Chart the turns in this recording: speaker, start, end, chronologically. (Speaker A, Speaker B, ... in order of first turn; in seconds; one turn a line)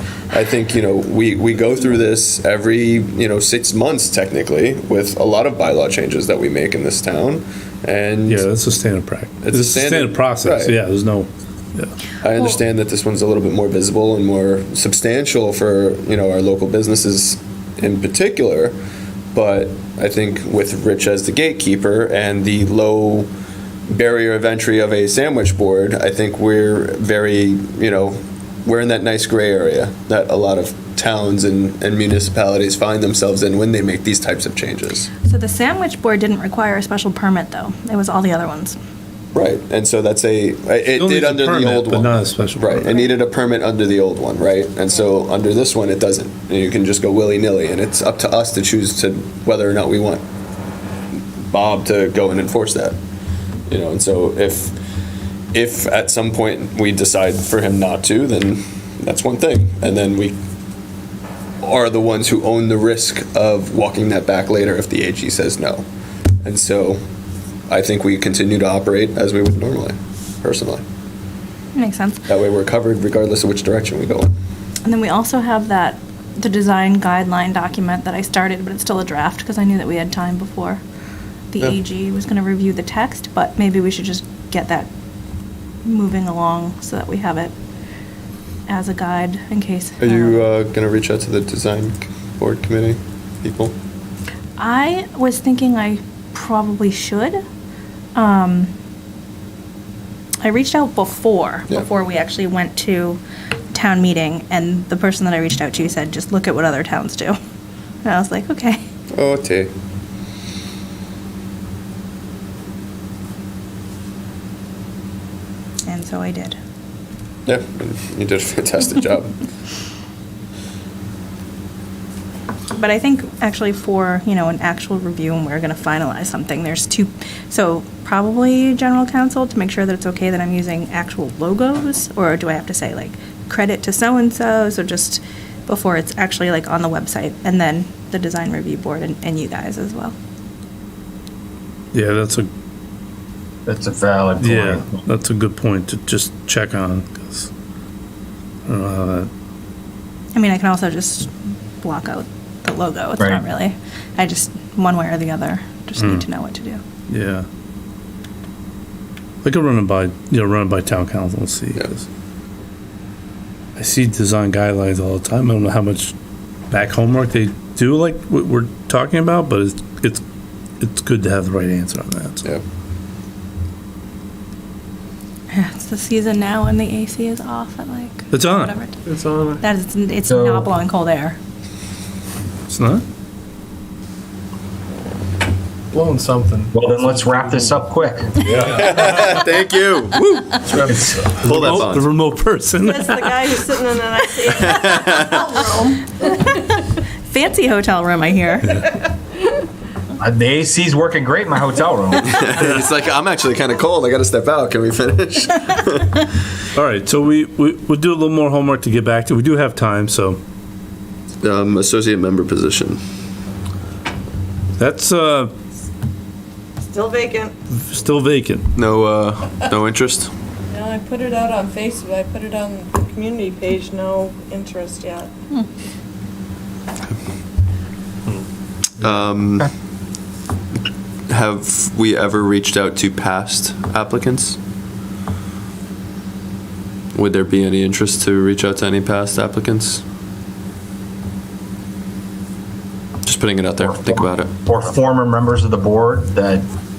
Speaker A: 0.3-8.4
Speaker B: 8.3-11.9
Speaker A: 9.4-10.8
Speaker A: 12.2-18.8
Speaker A: 19.3-23.3
Speaker A: 23.9-35.1
Speaker C: 35.2-38.8
Speaker A: 39.3-50.2
Speaker B: 40.9-42.9
Speaker A: 51.5-52.9
Speaker A: 53.7-54.7
Speaker A: 55.5-60.4
Speaker A: 61.6-65.8
Speaker A: 66.4-67.0
Speaker A: 67.7-70.8
Speaker C: 71.7-72.2
Speaker A: 72.3-74.3
Speaker C: 74.8-80.8
Speaker C: 81.5-84.9
Speaker C: 85.8-87.5
Speaker C: 88.7-90.4
Speaker A: 90.0-93.7
Speaker C: 94.6-97.4
Speaker C: 98.1-98.7
Speaker C: 100.4-103.2
Speaker C: 103.7-107.4
Speaker C: 108.0-108.8
Speaker A: 109.1-109.7
Speaker C: 115.8-116.6
Speaker A: 117.5-119.3
Speaker C: 122.7-140.1
Speaker B: 141.9-142.5
Speaker D: 143.7-145.0
Speaker B: 144.4-147.5
Speaker B: 148.7-149.3
Speaker C: 150.3-151.3
Speaker C: 151.8-156.8
Speaker B: 156.0-156.2
Speaker B: 157.1-157.5
Speaker B: 159.4-162.0
Speaker B: 163.8-166.1
Speaker B: 166.7-170.2
Speaker B: 170.8-172.4
Speaker C: 175.5-179.0
Speaker B: 178.3-178.7
Speaker E: 179.1-179.6
Speaker C: 179.6-181.4
Speaker D: 180.2-180.7
Speaker B: 182.7-183.0
Speaker E: 185.9-187.8
Speaker D: 186.7-188.5
Speaker E: 188.4-189.3
Speaker A: 188.6-190.2
Speaker B: 190.2-190.6
Speaker E: 190.6-191.9
Speaker B: 191.4-193.4
Speaker A: 191.4-192.1
Speaker F: 192.8-196.1
Speaker A: 194.6-195.2
Speaker C: 197.3-198.8
Speaker D: 200.2-202.4
Speaker A: 202.2-206.3
Speaker B: 206.7-210.4
Speaker A: 211.4-213.0
Speaker B: 214.8-215.5
Speaker F: 216.9-217.5
Speaker B: 217.7-218.7
Speaker A: 218.7-220.3
Speaker F: 220.7-225.3
Speaker A: 229.0-229.7
Speaker A: 231.3-234.6
Speaker A: 237.1-240.0
Speaker A: 243.2-244.5
Speaker D: 243.8-246.7